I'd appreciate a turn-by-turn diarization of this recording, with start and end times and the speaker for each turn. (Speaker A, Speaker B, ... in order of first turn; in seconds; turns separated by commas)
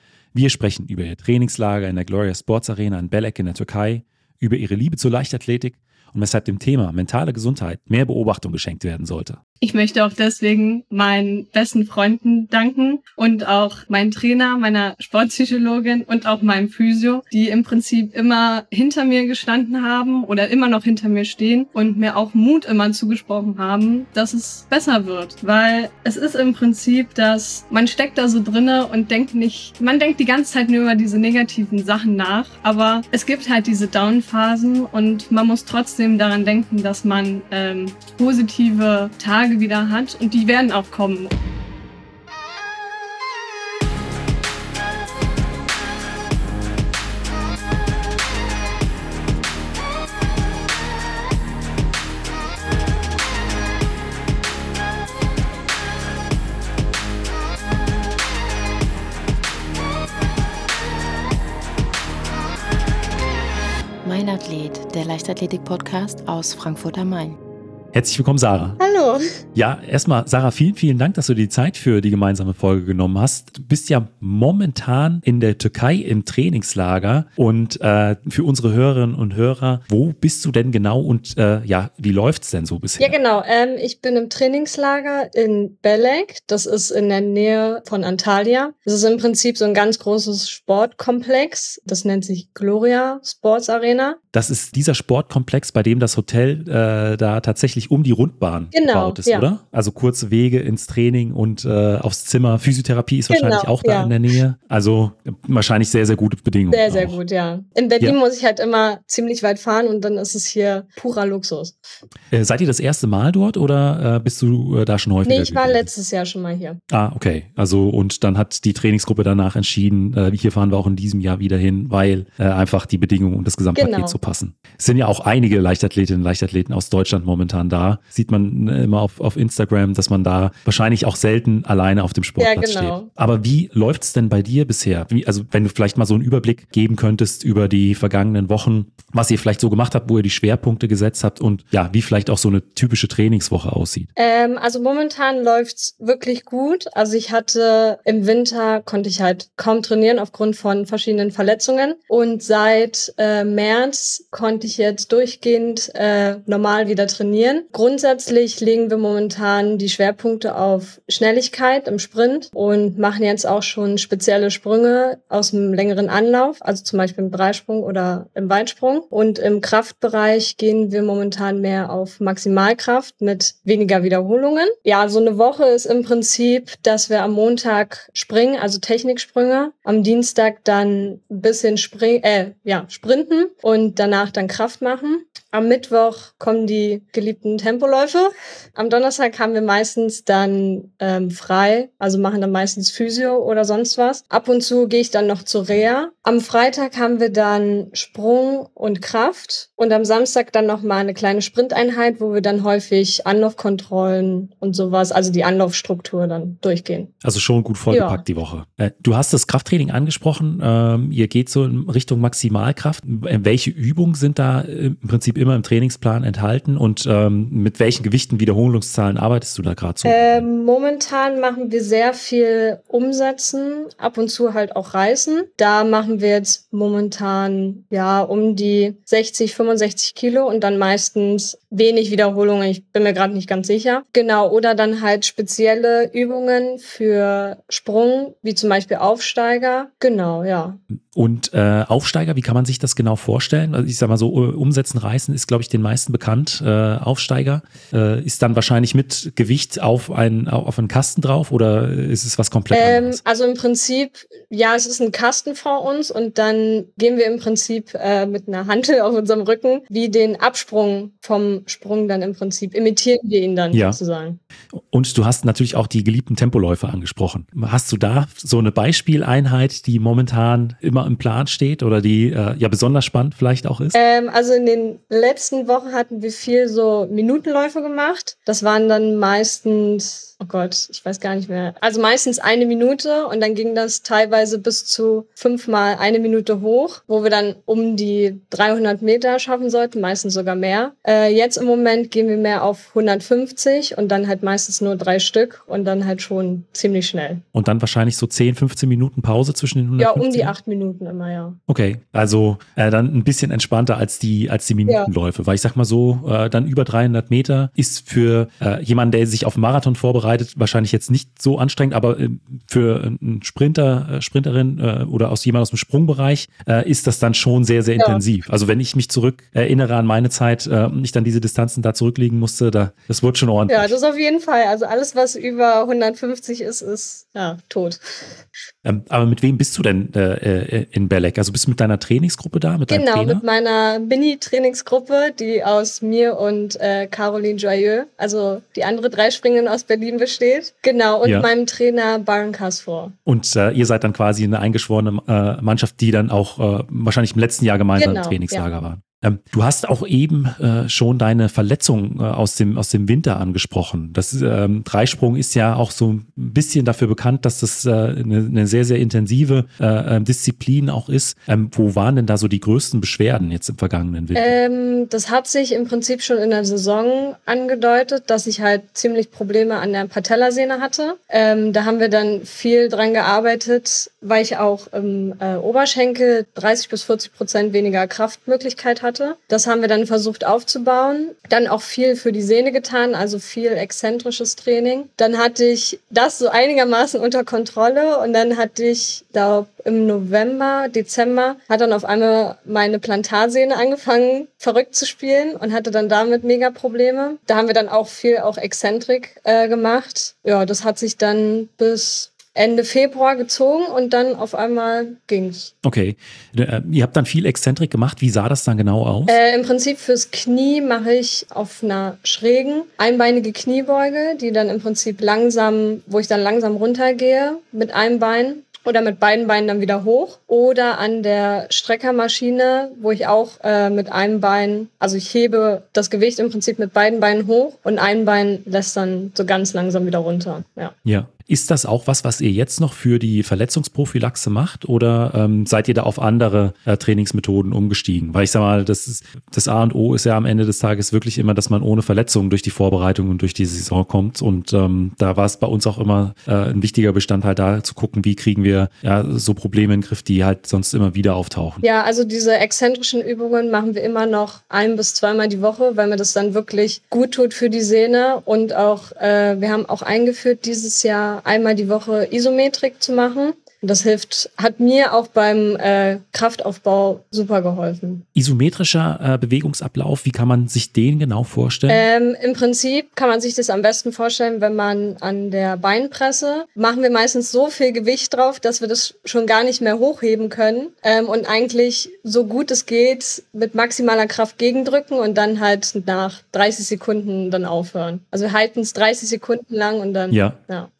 Speaker A: 0.3-9.4, Speaker B: 9.6-41.3, Speaker C: 64.0-67.4, Speaker A: 67.9-68.8, Speaker B: 68.8-69.2, Speaker A: 69.5-83.2, Speaker B: 83.0-94.2, Speaker A: 94.3-107.2, Speaker B: 98.7-99.5, Speaker B: 103.3-104.1, Speaker B: 106.7-111.8, Speaker A: 112.3-115.9, Speaker B: 115.2-116.8, Speaker A: 116.9-144.1, Speaker B: 123.7-124.2, Speaker B: 132.4-133.1, Speaker B: 144.2-207.1, Speaker A: 207.2-220.4, Speaker B: 207.9-208.2, Speaker B: 220.0-240.8, Speaker A: 241.1-253.2, Speaker B: 252.7-264.4, Speaker A: 263.7-264.0, Speaker A: 264.7-274.0, Speaker B: 273.9-297.4, Speaker A: 297.5-300.5, Speaker B: 300.0-301.6, Speaker A: 301.7-323.9, Speaker B: 323.7-328.4, Speaker A: 328.8-333.4, Speaker B: 332.9-343.1, Speaker A: 343.2-364.6, Speaker B: 348.0-348.6, Speaker B: 364.3-405.7, Speaker A: 405.8-409.4, Speaker B: 409.3-430.9, Speaker A: 431.0-451.8, Speaker B: 451.8-468.2, Speaker A: 468.3-472.0, Speaker B: 471.9-490.9, Speaker A: 490.3-490.6